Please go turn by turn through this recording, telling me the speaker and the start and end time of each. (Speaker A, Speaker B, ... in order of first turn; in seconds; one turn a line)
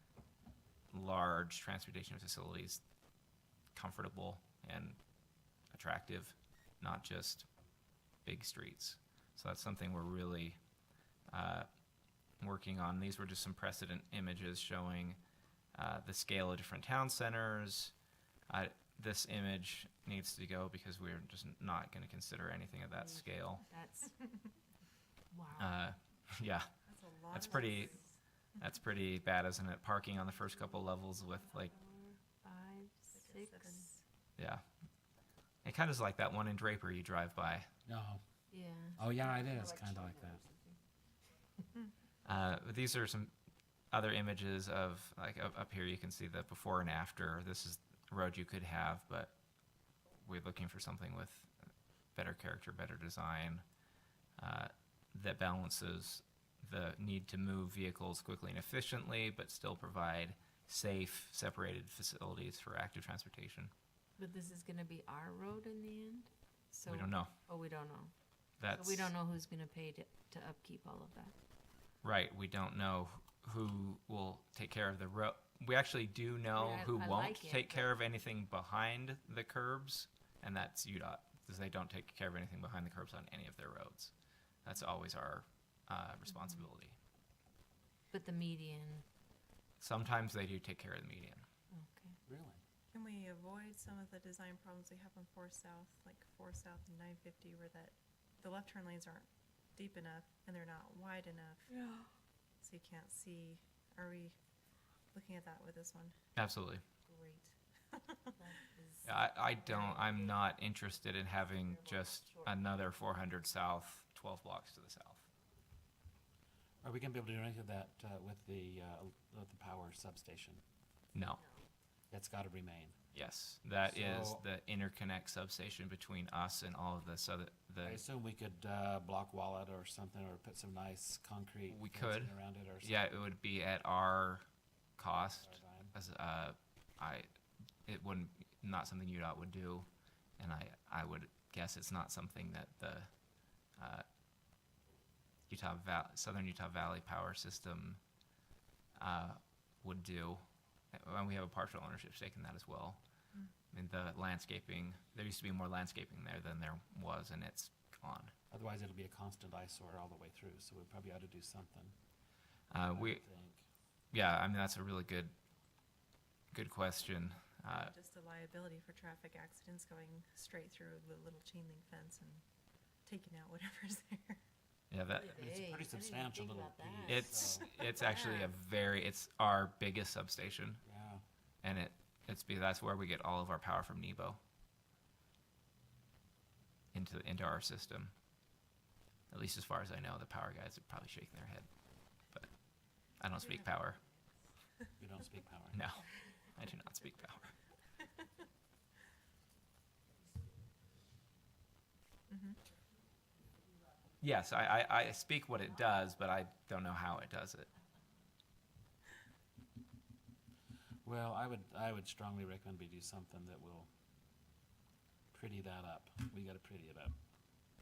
Speaker A: 0.9-2.8
Speaker A: 3.7-5.0
Speaker A: 5.7-7.5
Speaker A: 8.2-10.6
Speaker A: 11.3-11.7
Speaker A: 12.4-15.2
Speaker A: 15.7-17.9
Speaker A: 18.5-23.6
Speaker B: 22.9-24.1
Speaker B: 25.3-25.8
Speaker A: 25.6-26.7
Speaker C: 26.9-28.2
Speaker A: 27.3-28.0
Speaker A: 28.6-31.7
Speaker B: 31.3-33.9
Speaker C: 33.1-34.0
Speaker A: 34.4-34.6
Speaker A: 35.6-37.7
Speaker D: 37.9-38.2
Speaker B: 38.5-40.8
Speaker D: 39.0-40.4
Speaker A: 42.2-43.3
Speaker A: 43.9-49.4
Speaker A: 50.2-51.5
Speaker A: 52.1-53.6
Speaker A: 54.4-63.7
Speaker B: 64.2-68.1
Speaker A: 66.8-67.3
Speaker A: 68.6-69.1
Speaker B: 68.6-71.3
Speaker A: 72.0-84.1
Speaker B: 76.5-78.0
Speaker A: 84.6-87.0
Speaker B: 88.1-89.0
Speaker A: 89.8-91.5
Speaker B: 91.7-92.2
Speaker D: 92.3-92.6
Speaker C: 92.9-101.7
Speaker B: 101.7-102.0
Speaker C: 102.6-104.3
Speaker C: 105.1-106.2
Speaker A: 106.3-106.8
Speaker C: 107.1-108.3
Speaker B: 108.4-110.4
Speaker A: 109.0-115.3
Speaker B: 111.3-112.7
Speaker D: 116.8-120.6
Speaker A: 121.1-121.4
Speaker B: 121.4-121.6
Speaker D: 122.1-123.0
Speaker A: 123.1-128.0
Speaker D: 123.8-124.4
Speaker D: 127.8-133.0
Speaker A: 131.7-134.4
Speaker A: 135.0-137.3
Speaker D: 135.3-135.9
Speaker A: 137.8-139.9
Speaker A: 140.4-143.1
Speaker A: 143.8-144.1
Speaker A: 145.5-148.0
Speaker A: 148.9-153.0
Speaker A: 153.7-158.3
Speaker D: 158.5-161.9
Speaker A: 162.7-163.2
Speaker D: 162.7-163.6
Speaker A: 164.1-165.3
Speaker A: 166.5-167.9
Speaker C: 167.7-172.4
Speaker C: 173.0-174.4
Speaker A: 174.9-175.5
Speaker B: 175.1-177.4
Speaker D: 175.3-177.7
Speaker A: 177.1-180.8
Speaker C: 177.6-178.1
Speaker B: 177.9-178.5
Speaker D: 180.8-181.2
Speaker A: 181.6-184.4
Speaker A: 186.9-188.1
Speaker A: 189.3-191.7
Speaker A: 193.2-194.0
Speaker C: 193.4-194.3
Speaker D: 195.0-195.8
Speaker A: 195.7-197.5
Speaker C: 202.3-202.6
Speaker A: 204.2-207.7
Speaker D: 211.0-213.9
Speaker D: 215.3-217.1